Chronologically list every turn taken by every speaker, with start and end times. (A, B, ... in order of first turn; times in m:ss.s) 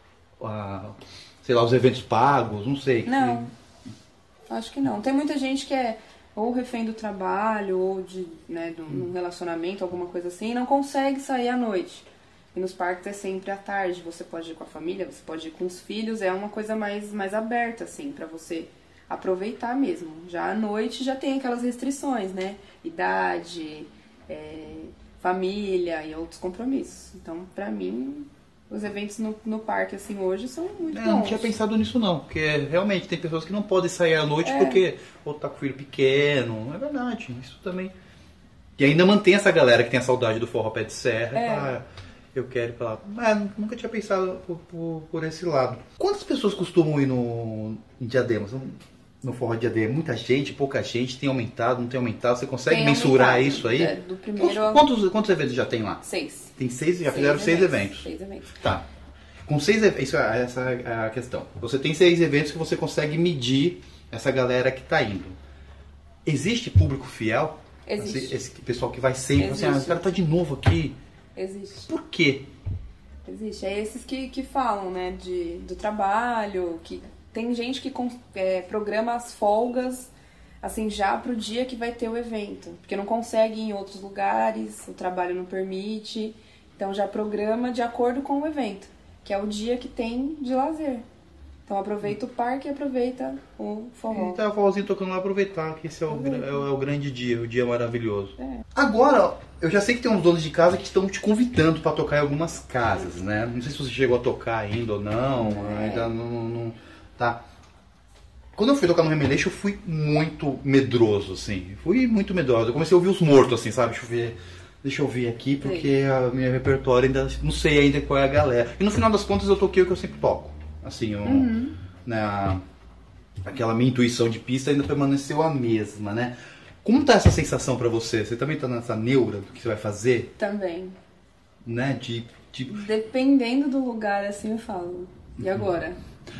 0:00.4-0:03.4 A
0:03.0-0:03.5 B
0:04.5-0:31.5 B
0:30.9-0:37.9 A
0:34.4-0:34.8 B
0:38.8-0:56.0 A
0:41.3-0:41.8 B
0:52.7-0:54.8 B
0:56.0-0:56.5 B
0:56.6-0:58.8 A
0:57.0-0:58.6 B
0:59.4-1:05.4 A
1:06.2-1:10.9 A
1:07.8-1:08.4 B
1:09.4-1:10.1 B
1:11.3-1:11.9 B
1:11.9-1:12.4 A
1:13.2-1:20.1 B
1:20.6-1:31.0 B
1:31.7-1:34.4 B
1:34.1-1:47.4 A
1:36.1-1:36.6 B
1:38.4-1:38.6 B
1:45.3-1:46.1 B
1:48.5-2:01.5 A
1:55.6-1:55.9 B
2:01.2-2:01.8 B
2:02.0-2:02.6 A
2:03.4-2:10.3 A
2:10.4-2:11.0 B
2:11.6-2:12.8 A
2:12.7-2:16.0 B